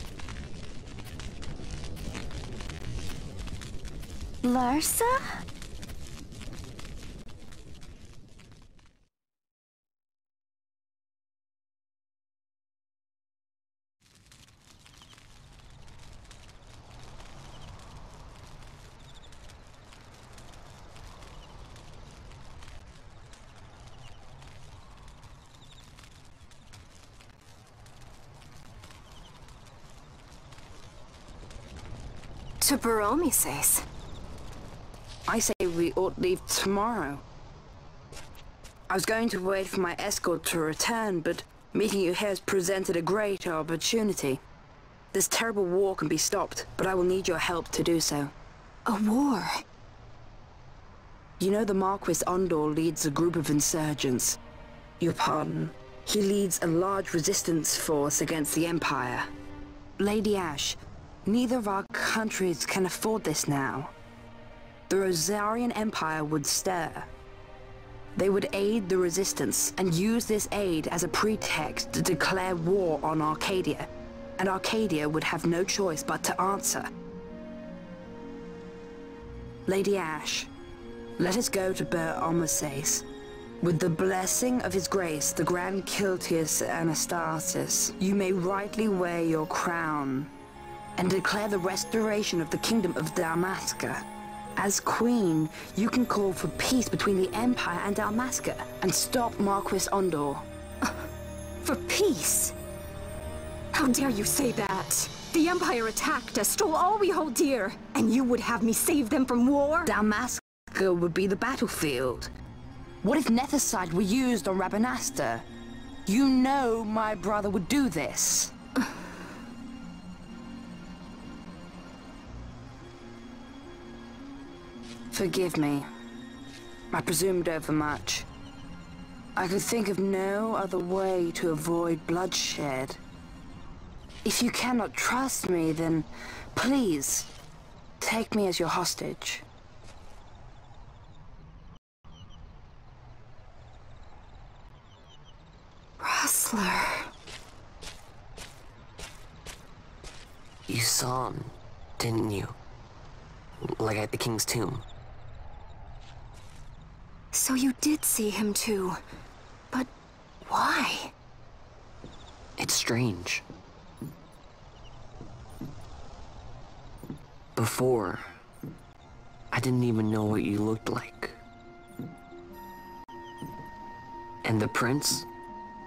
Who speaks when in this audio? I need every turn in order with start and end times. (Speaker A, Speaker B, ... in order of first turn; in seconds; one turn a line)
Speaker A: 4.4-5.2
Speaker A: 32.6-33.9
Speaker B: 35.3-37.2
Speaker B: 38.9-44.4
Speaker B: 45.1-48.3
Speaker A: 48.9-49.6
Speaker B: 51.4-54.4
Speaker B: 55.0-59.3
Speaker B: 60.0-63.9
Speaker B: 64.9-67.1
Speaker B: 68.1-76.9
Speaker B: 79.7-80.5
Speaker B: 81.2-83.0
Speaker B: 83.6-90.3
Speaker B: 91.0-94.0
Speaker B: 94.6-100.4
Speaker A: 101.6-102.5
Speaker A: 103.7-109.9
Speaker B: 109.8-112.3
Speaker B: 113.0-115.4
Speaker B: 116.0-118.5
Speaker B: 125.1-125.9
Speaker B: 126.9-128.2
Speaker B: 129.3-133.0
Speaker B: 134.2-137.3
Speaker B: 138.0-139.4
Speaker A: 146.0-147.1
Speaker C: 150.7-152.5
Speaker C: 153.6-154.8
Speaker A: 157.3-159.0
Speaker A: 160.4-161.1
Speaker C: 162.6-163.4
Speaker C: 167.6-168.3
Speaker C: 169.5-171.4
Speaker C: 174.4-175.3